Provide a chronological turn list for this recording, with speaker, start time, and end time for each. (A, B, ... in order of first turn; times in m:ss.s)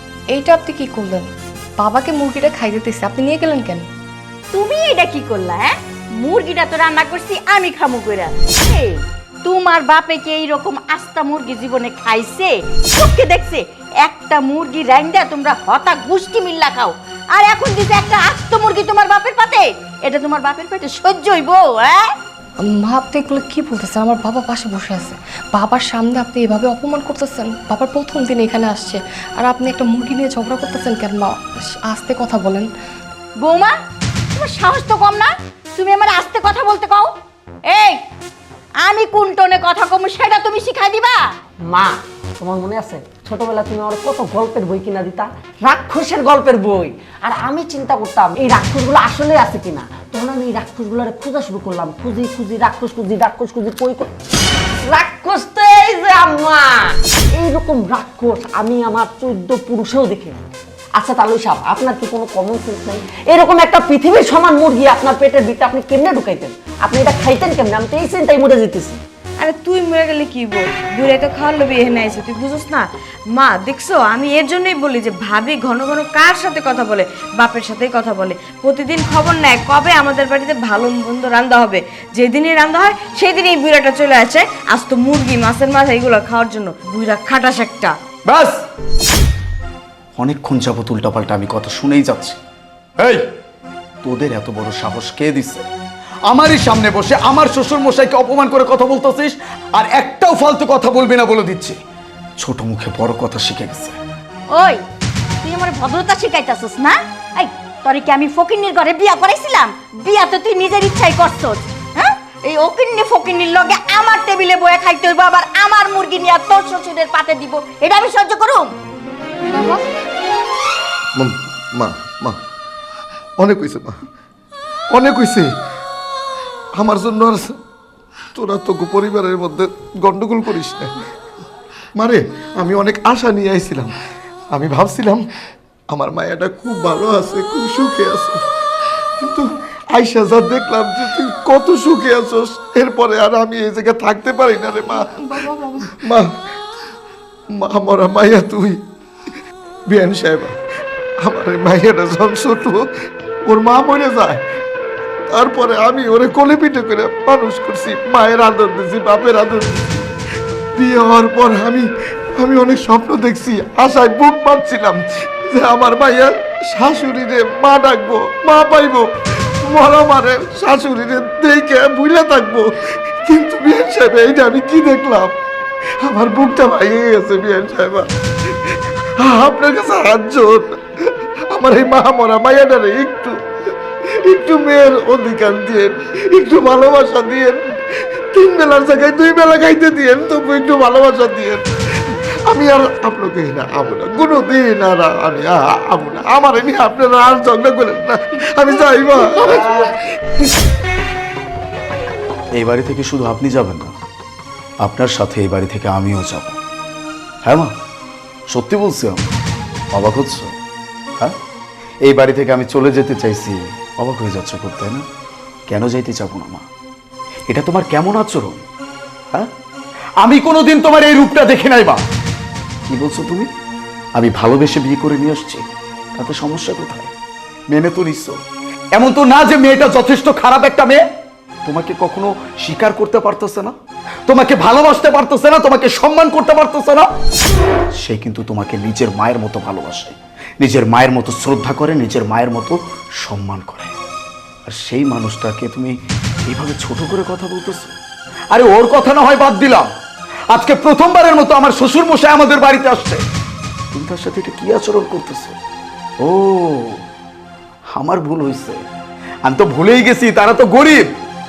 0:00.3-0:03.8 A
0:04.5-0:22.1 B
0:22.6-0:32.7 A
0:33.4-0:33.7 B
0:34.3-0:37.1 B
0:37.6-0:38.0 B
0:38.8-0:41.2 B
0:41.6-0:54.1 C
0:54.8-1:09.0 C
1:09.4-1:27.9 D
1:28.2-1:28.6 E
1:30.2-1:32.4 E
1:34.0-1:35.6 E
1:36.3-1:41.8 E
1:42.4-1:44.0 E
1:44.5-1:44.8 B
1:45.4-1:58.7 B
1:59.5-1:59.8 A
2:01.2-2:02.4 F
2:03.4-2:04.0 F
2:04.9-2:05.5 F
2:06.8-2:07.5 F
2:08.3-2:10.9 F
2:12.0-2:13.9 F
2:14.5-2:15.2 F
2:15.9-2:18.4 F
2:19.2-2:19.4 F
2:20.0-2:26.4 F
2:24.8-2:25.9 A
2:27.5-2:28.8 F
2:29.9-2:30.5 F
2:31.2-2:32.8 F
2:33.5-2:34.4 F
2:35.3-2:40.1 F
2:40.8-2:49.0 F
2:49.6-2:55.3 F
2:56.0-3:00.8 F
3:01.5-3:03.3 F
3:04.2-3:11.6 F
3:12.5-3:20.0 F
3:22.5-3:24.0 E
3:24.8-3:26.6 E
3:27.4-3:27.7 E
3:28.5-3:29.3 E
3:29.9-3:30.6 E
3:32.0-3:35.0 E
3:35.7-3:36.6 E
3:37.5-3:38.6 E
3:40.2-3:42.0 E
3:42.9-3:43.5 E
3:44.2-3:47.1 E
3:47.7-3:48.4 E
3:48.9-3:51.0 E
3:51.6-3:53.7 E
3:54.3-3:57.1 E
3:58.0-4:04.0 E
4:04.6-4:08.0 E
4:08.5-4:09.9 E
4:10.5-4:13.2 E
4:13.9-4:15.6 E
4:16.2-4:17.0 E
4:17.9-4:18.8 E
4:19.4-4:21.1 E